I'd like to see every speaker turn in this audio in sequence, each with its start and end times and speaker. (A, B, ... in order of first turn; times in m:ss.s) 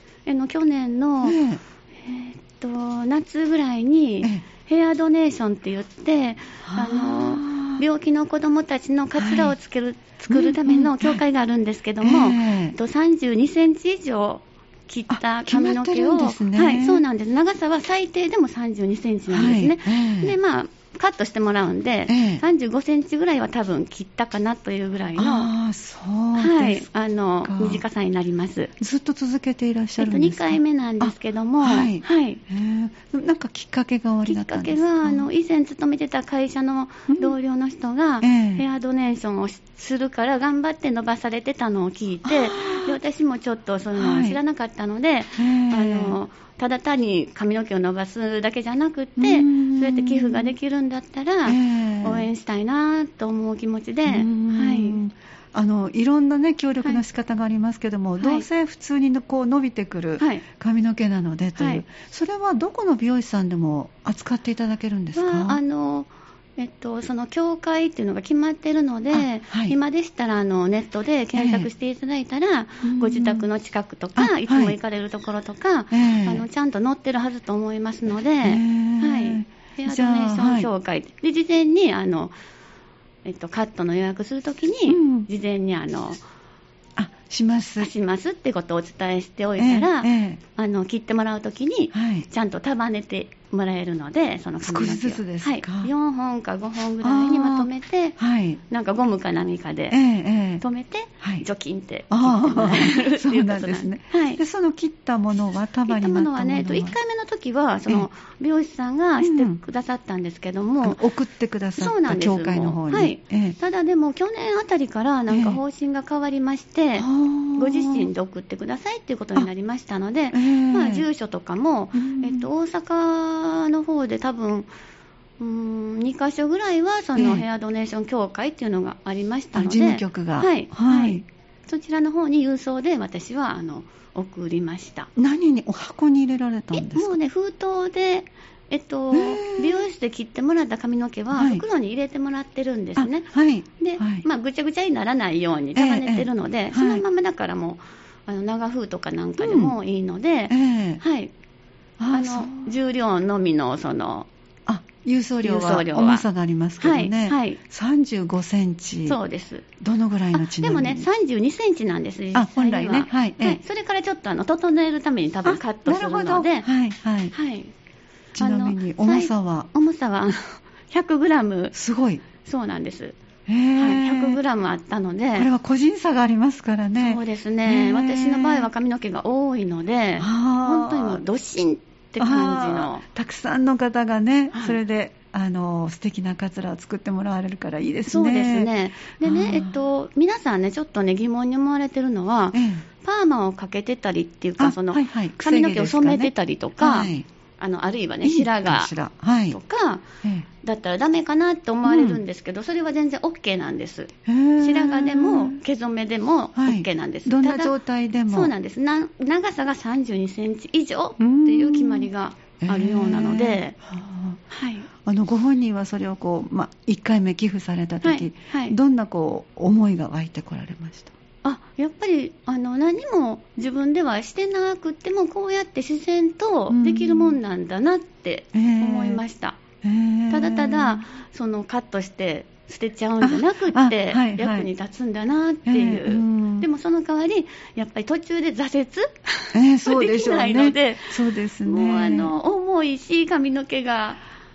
0:00.3-0:01.4 A
0:01.2-0:01.6 B
0:02.0-0:25.5 A
0:06.6-0:07.8 B
0:09.2-0:09.5 B
0:10.3-0:11.2 B
0:12.0-0:12.8 B
0:15.1-0:17.0 B
0:19.3-0:20.4 B
0:22.1-0:22.4 B
0:25.2-0:26.9 B
0:26.4-0:28.7 A
0:27.4-0:27.8 B
0:28.8-0:35.3 B
0:30.0-0:32.4 A
0:34.3-0:55.0 A
0:37.1-0:37.3 B
0:38.2-0:38.6 B
0:42.2-0:43.0 B
0:43.9-0:44.4 B
0:45.4-0:46.2 B
0:49.2-0:50.5 B
0:51.5-0:52.3 B
0:54.1-1:05.6 B
0:58.2-0:58.5 A
1:00.2-1:00.4 A
1:01.6-1:01.8 A
1:05.2-1:22.3 A
1:09.1-1:09.8 B
1:11.4-1:11.7 B
1:12.8-1:13.5 B
1:14.2-1:14.8 B
1:15.9-1:16.4 B
1:18.4-1:20.7 B
1:23.2-1:26.2 A
1:24.9-1:25.3 B
1:27.0-1:27.9 B
1:27.8-1:38.2 A
1:29.6-1:30.4 B
1:31.9-1:32.3 B
1:34.6-1:35.9 B
1:37.0-1:38.6 B
1:38.7-1:40.0 A
1:39.9-1:40.6 B
1:40.6-1:44.4 A
1:42.1-1:47.0 B
1:45.9-1:51.0 A
1:49.2-1:49.6 B
1:50.8-1:53.6 B
1:51.8-2:04.7 A
1:55.3-1:55.6 B
1:57.0-1:58.1 B
2:00.3-2:01.0 B
2:02.0-2:02.5 B
2:05.4-2:15.1 A
2:07.2-2:07.4 B
2:09.6-2:11.2 B
2:15.2-2:17.2 B
2:16.7-2:31.3 A
2:19.1-2:19.8 B
2:21.3-2:21.6 B
2:23.0-2:24.2 B
2:25.8-2:27.0 B
2:29.4-2:29.8 B
2:30.5-2:31.0 B
2:32.0-2:32.7 B
2:32.1-2:34.3 A
2:34.7-2:39.2 B
2:35.4-2:36.2 A
2:36.8-2:37.6 A
2:39.1-2:39.7 A
2:39.8-2:41.1 B
2:40.3-2:46.7 A
2:42.3-2:43.6 B
2:45.4-2:47.4 B
2:47.3-2:47.7 A
2:48.4-2:49.7 B
2:48.4-2:51.8 A
2:51.7-2:52.2 B
2:52.4-2:53.2 A
2:53.5-2:54.4 B
2:53.8-2:55.5 A
2:55.4-2:58.7 B
2:57.0-3:03.0 A
3:00.2-3:01.2 B
3:02.2-3:09.8 B
3:04.5-3:04.8 A
3:08.1-3:18.9 A
3:12.5-3:12.9 B
3:14.6-3:17.3 B
3:18.2-3:19.6 B
3:19.5-3:20.0 A
3:20.6-3:27.8 A
3:21.8-3:22.2 B
3:24.3-3:25.6 B
3:26.6-3:28.5 B
3:28.3-3:33.8 A
3:31.2-3:32.1 B
3:32.6-3:34.4 B
3:34.5-3:34.9 A
3:35.0-3:41.1 B
3:38.0-3:38.8 A
3:41.4-3:49.6 A
3:46.7-3:47.4 B
3:48.5-3:49.2 B
3:49.8-3:51.0 B
3:50.3-4:04.2 A
3:53.2-3:54.7 B
3:55.7-3:56.7 B
3:59.5-4:02.3 B